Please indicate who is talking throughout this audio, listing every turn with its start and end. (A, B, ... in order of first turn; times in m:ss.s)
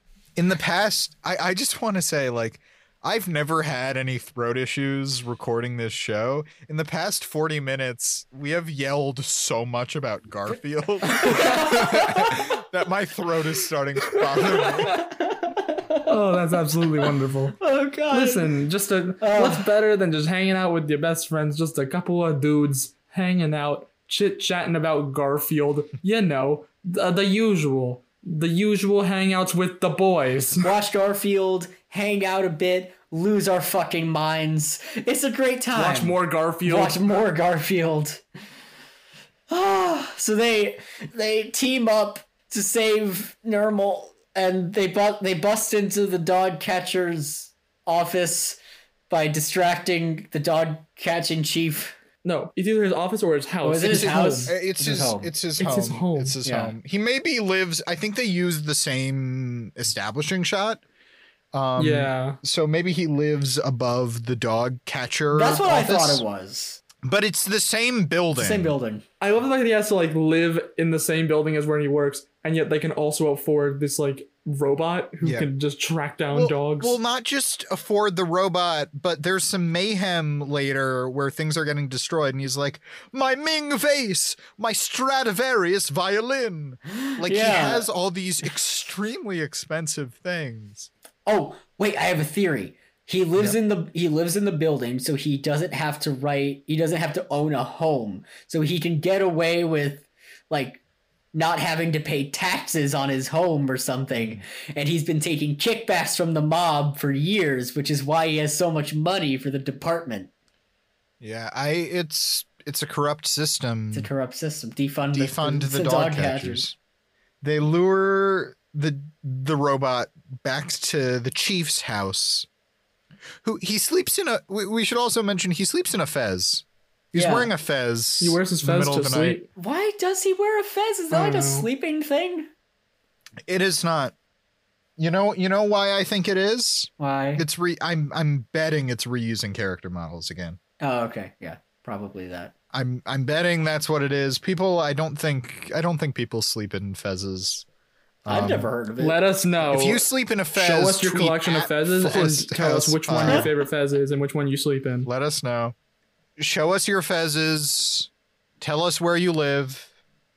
0:00.4-0:15.0 A
0:11.2-0:11.5 B
0:11.2-0:12.3 C
0:14.1-0:15.1 B
0:15.3-0:16.1 C
0:16.0-0:17.6 B
0:17.6-0:18.5 C
0:18.1-0:30.7 B
0:19.2-0:19.7 C
0:30.6-0:38.2 C
0:35.7-0:37.0 B
0:39.5-0:48.6 C
0:49.1-0:52.0 C
0:52.2-0:54.5 B
0:53.6-0:55.3 C
0:53.9-1:00.8 A
0:55.6-0:56.4 B
0:56.4-0:56.7 C
1:01.5-1:06.2 A
1:01.8-1:02.4 B
1:05.3-1:06.8 C
1:07.0-1:08.8 A
1:08.3-1:09.0 C
1:09.2-1:17.0 B
1:15.2-1:15.5 A
1:16.3-1:30.9 A
1:26.9-1:27.8 C
1:31.2-1:40.8 C
1:41.3-1:50.3 C
1:51.2-1:54.1 A
1:53.9-1:56.6 C
1:55.1-1:56.7 A
1:57.4-2:02.5 A
2:03.4-2:09.4 A
2:07.1-2:07.5 C
2:08.2-2:09.5 B
2:09.5-2:12.5 C
2:11.1-2:11.7 B
2:13.5-2:14.1 A
2:15.0-2:20.6 A
2:17.0-2:17.4 C
2:20.8-2:22.5 C
2:22.7-2:27.6 A
2:28.2-2:28.7 A
2:28.3-2:29.2 C
2:29.0-2:35.1 B
2:29.7-2:33.5 A
2:35.0-2:35.7 A
2:36.4-2:38.1 A
2:38.6-2:39.9 A